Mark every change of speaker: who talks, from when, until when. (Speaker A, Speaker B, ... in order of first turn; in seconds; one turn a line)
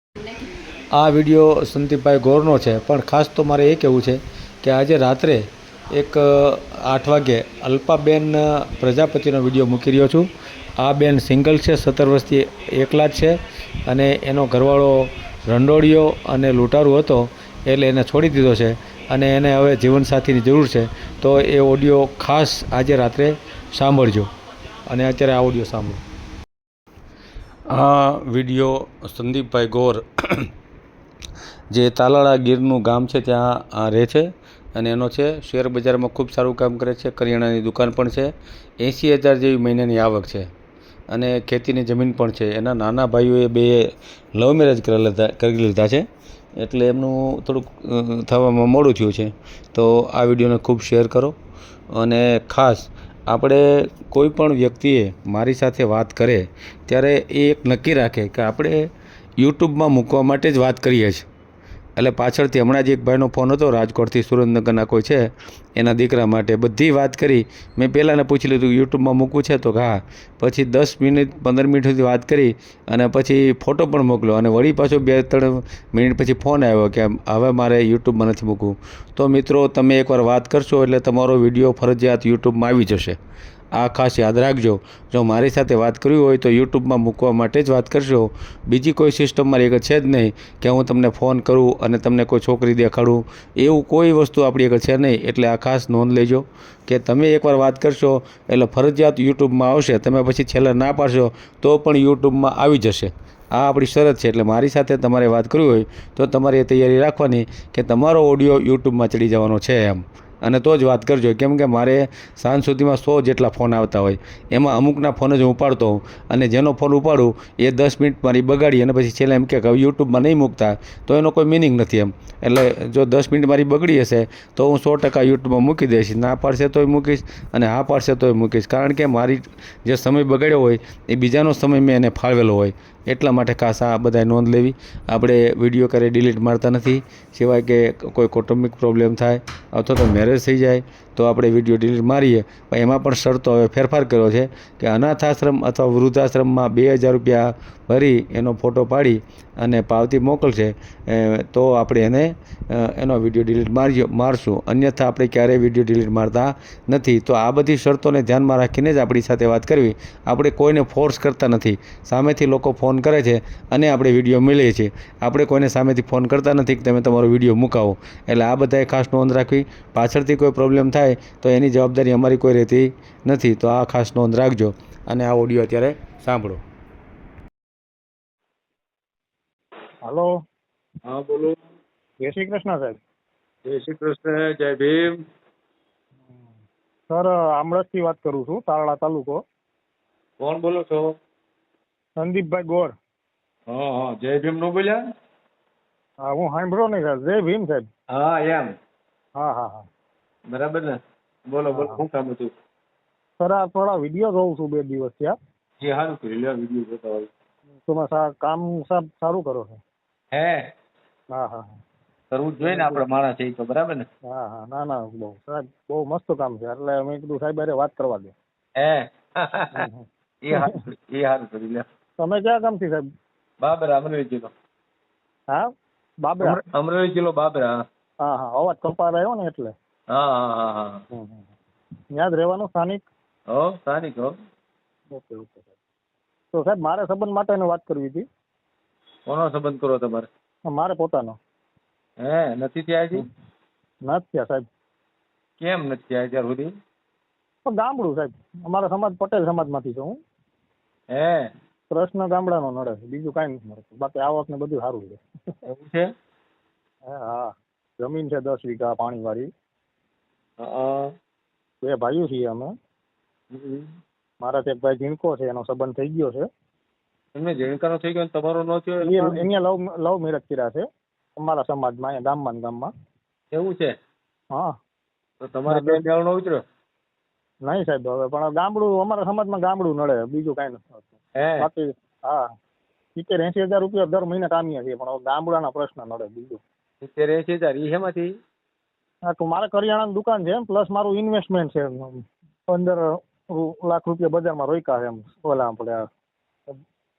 Speaker A: 0.9-5.4
Speaker A: 6.0-24.3
Speaker A: 24.9-26.0
Speaker A: 27.7-30.5
Speaker A: 31.7-40.5
Speaker A: 41.1-51.4
Speaker A: 51.9-61.3
Speaker A: 62.0-83.2
Speaker A: 83.8-176.6
Speaker B: 181.1-181.6
Speaker C: 182.2-183.0
Speaker B: 183.7-185.2
Speaker C: 187.1-189.4
Speaker B: 190.4-191.1
Speaker C: 192.2-192.9
Speaker B: 193.7-195.0
Speaker C: 196.2-197.9
Speaker B: 198.1-198.8
Speaker C: 199.4-199.9
Speaker B: 200.5-202.5
Speaker C: 201.7-202.0
Speaker C: 203.4-205.4
Speaker B: 205.8-207.3
Speaker C: 207.9-209.8
Speaker B: 210.3-210.7
Speaker C: 211.3-211.7
Speaker B: 212.3-214.1
Speaker C: 212.6-213.1
Speaker C: 214.3-218.3
Speaker B: 218.8-219.9
Speaker C: 219.7-220.7
Speaker B: 220.4-221.8
Speaker C: 222.2-223.1
Speaker B: 223.6-224.5
Speaker C: 226.2-226.6
Speaker B: 226.4-227.8
Speaker C: 228.2-229.7
Speaker B: 230.1-231.0
Speaker C: 231.1-231.5
Speaker C: 232.2-233.1
Speaker B: 233.5-234.4
Speaker C: 235.1-235.7
Speaker C: 236.5-238.3
Speaker B: 239.3-240.3
Speaker C: 240.7-241.4
Speaker B: 242.2-243.3
Speaker C: 244.1-244.7
Speaker B: 245.6-246.7
Speaker C: 247.7-250.2
Speaker B: 251.2-251.5
Speaker C: 251.9-255.2
Speaker B: 255.7-256.1
Speaker C: 257.1-259.5
Speaker B: 260.6-261.1
Speaker C: 261.8-262.7
Speaker B: 263.5-263.9
Speaker C: 264.4-266.5
Speaker B: 267.4-269.5
Speaker C: 269.0-270.9
Speaker C: 271.4-272.9
Speaker B: 273.5-273.9
Speaker B: 275.4-276.6
Speaker C: 275.7-276.0
Speaker C: 277.6-281.1
Speaker B: 281.4-281.6
Speaker C: 281.6-282.4
Speaker C: 283.2-286.6
Speaker B: 287.0-288.3
Speaker C: 289.3-296.1